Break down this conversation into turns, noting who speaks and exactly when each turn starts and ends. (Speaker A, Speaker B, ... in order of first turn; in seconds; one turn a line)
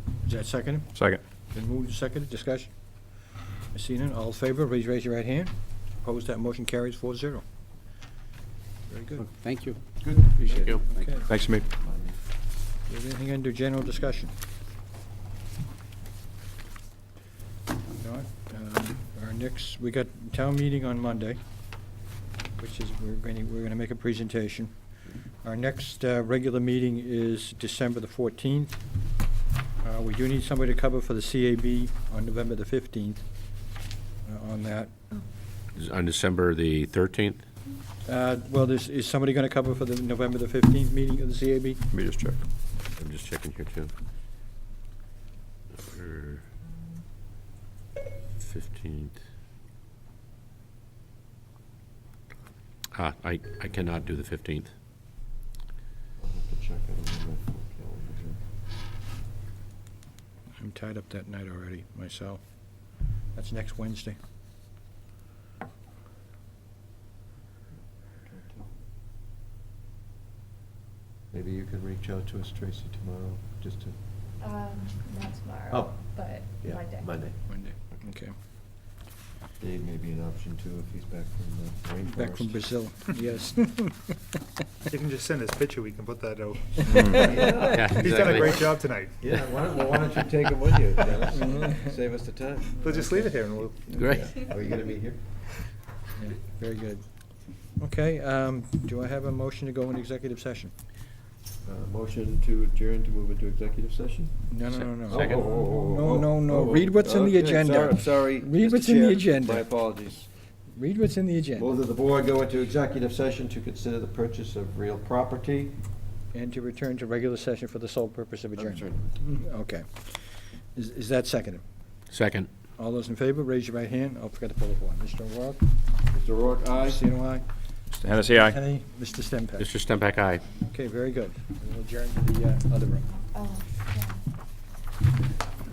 Speaker A: 0.2-7.5
Speaker B: 0.9-1.2
Speaker A: 8.9-9.2
Speaker C: 9.2-11.2
Speaker D: 10.0-10.9
Speaker A: 10.7-11.3
Speaker B: 11.3-11.7
Speaker D: 11.4-12.2
Speaker A: 12.8-14.4
Speaker A: 17.9-21.9
Speaker A: 22.6-24.8
Speaker A: 25.4-28.8
Speaker A: 29.8-33.5
Speaker A: 34.2-34.9
Speaker E: 35.8-37.4
Speaker A: 38.0-41.8
Speaker B: 41.9-42.4
Speaker E: 43.0-43.9
Speaker E: 45.7-46.4
Speaker E: 48.4-49.2
Speaker E: 52.9-54.7
Speaker D: 56.2-58.4
Speaker A: 60.6-64.2
Speaker D: 68.2-68.7
Speaker D: 71.3-74.0
Speaker F: 74.4-77.2
Speaker D: 75.7-78.0
Speaker A: 77.5-78.3
Speaker D: 79.6-82.7
Speaker A: 82.0-84.2
Speaker G: 84.9-89.2
Speaker B: 86.9-87.2
Speaker D: 87.0-93.0
Speaker E: 87.7-88.6
Speaker A: 91.3-91.8
Speaker G: 92.8-93.9
Speaker D: 93.9-95.5
Speaker E: 94.0-94.4
Speaker A: 96.2-100.7
Speaker D: 101.6-110.3
Speaker A: 104.5-109.7
Speaker E: 104.8-105.6
Speaker A: 110.7-111.7
Speaker D: 111.6-115.8
Speaker A: 116.3-121.6
Speaker D: 118.6-119.2
Speaker E: 122.1-122.5
Speaker A: 122.8-125.7
Speaker D: 126.1-127.0
Speaker A: 126.8-127.5
Speaker B: 127.9-128.6
Speaker A: 128.4-129.7
Speaker E: 129.6-130.4
Speaker A: 130.6-133.1
Speaker F: 133.3-134.2